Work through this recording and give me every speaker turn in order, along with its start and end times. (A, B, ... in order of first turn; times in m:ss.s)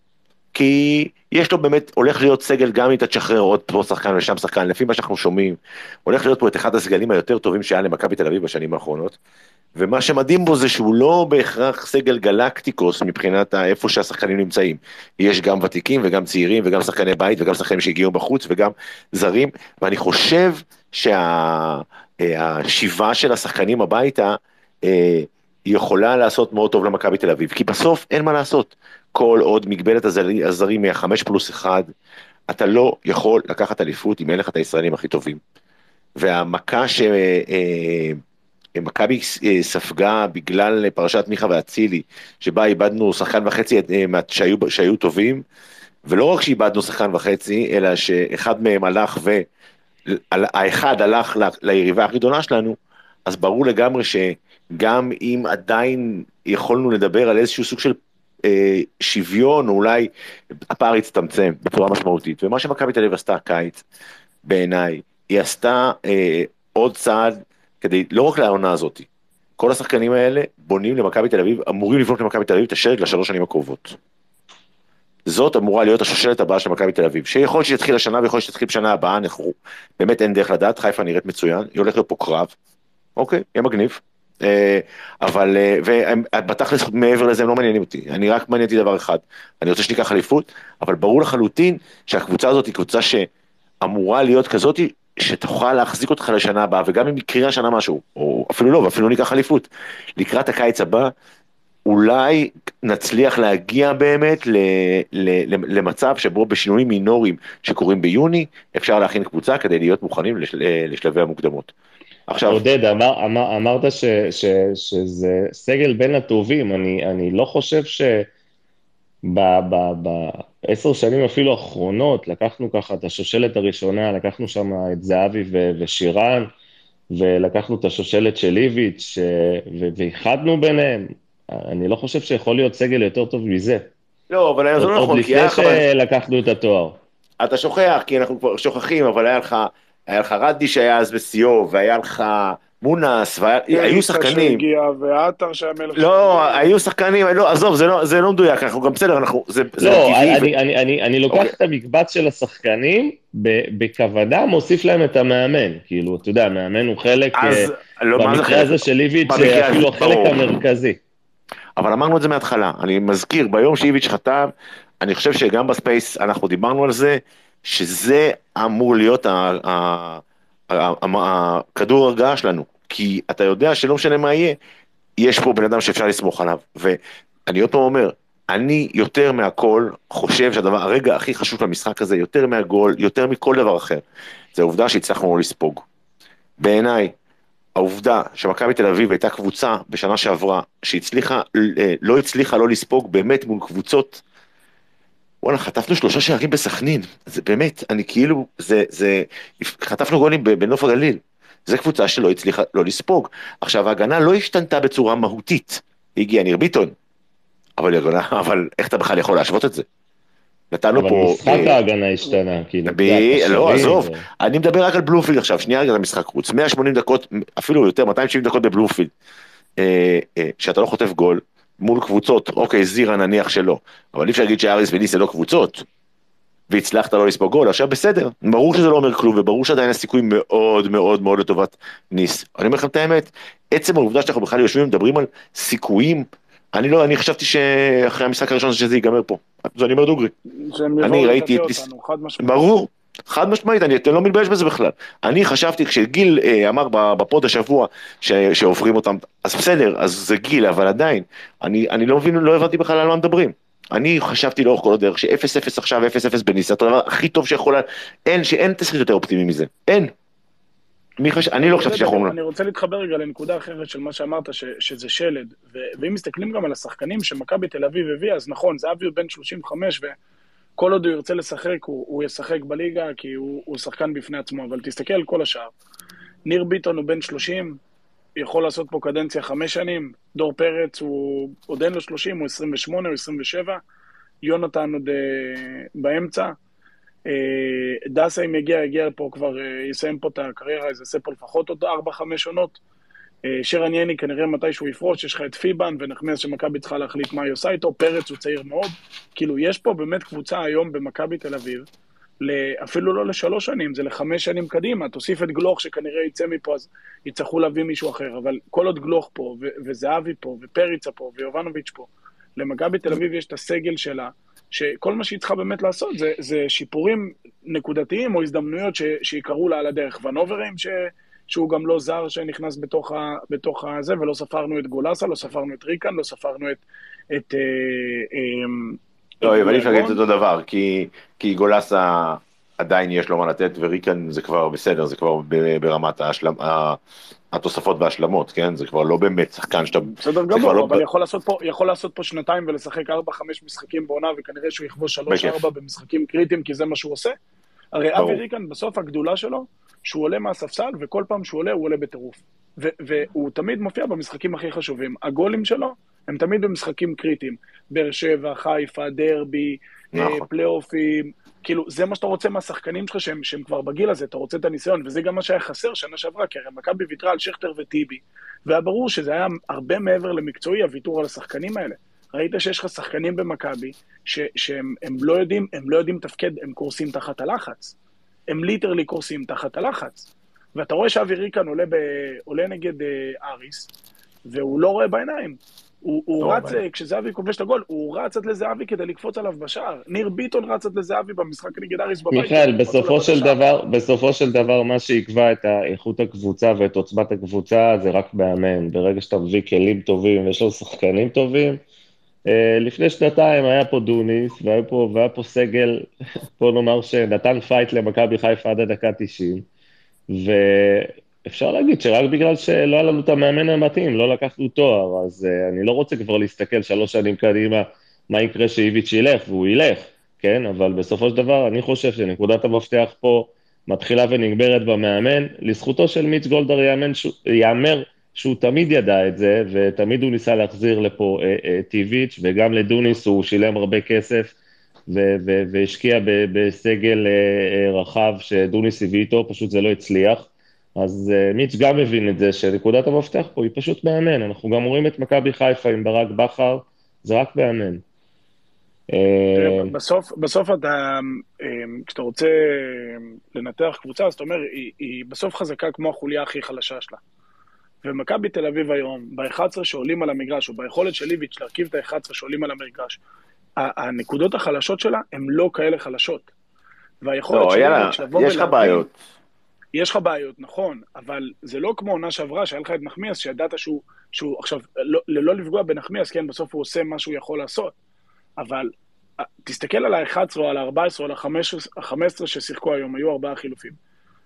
0:00.5-0:09.2 A
0:09.8-0:31.9 A
0:32.5-0:35.4 A
0:36.2-0:38.2 A
0:38.8-0:45.4 A
0:46.1-0:49.5 A
0:50.1-1:00.1 A
1:00.7-1:03.8 A
1:04.4-1:09.1 A
1:09.6-1:14.0 A
1:15.3-1:22.5 A
1:23.2-1:33.3 A
1:33.8-1:41.1 A
1:41.9-1:51.7 A
1:52.3-1:52.6 A
1:52.5-1:58.3 B
1:59.2-2:06.5 B
2:07.1-2:13.9 B
2:14.3-2:15.8 A
2:14.8-2:17.0 B
2:17.4-2:24.6 A
2:23.7-2:26.8 C
2:26.0-2:30.5 A
2:29.8-2:41.0 B
2:31.3-2:31.5 A
2:37.3-2:40.6 A
2:41.8-2:44.5 A
2:45.0-2:54.6 A
2:55.2-3:04.0 A
3:04.5-3:05.8 A
3:06.6-3:07.1 A
3:07.8-3:14.2 A
3:15.4-3:26.9 A
3:27.8-3:29.8 A
3:30.7-3:31.8 A
3:31.0-3:34.2 B
3:32.9-3:39.1 A
3:39.8-3:45.8 A
3:46.7-4:00.3 A
4:00.6-4:02.7 C
4:01.0-4:01.9 A
4:02.4-4:20.1 A
4:21.2-4:22.4 A
4:21.6-4:30.2 C
4:30.8-4:35.7 C
4:36.4-4:37.8 C
4:38.4-4:43.8 C
4:44.4-4:46.5 C
4:47.3-4:52.8 C
4:53.4-5:01.9 C
5:02.4-5:30.2 C
5:29.4-5:37.0 A
5:37.5-5:41.0 A
5:40.2-5:47.4 C
5:45.3-5:45.6 A
5:47.9-6:17.9 C
5:48.2-5:48.4 A
6:00.1-6:00.5 A
6:18.5-6:23.9 C
6:24.5-6:33.6 C
6:32.3-6:41.8 B
6:42.5-6:49.7 B
6:50.3-7:14.5 B
7:15.1-7:28.0 B
7:29.1-7:29.9 B
7:29.6-7:37.2 C
7:38.0-7:43.2 C
7:43.8-7:46.5 C
7:47.2-7:49.1 C
7:47.5-7:49.1 A
7:49.9-7:57.9 C
7:58.6-7:58.9 C
7:59.6-8:04.0 C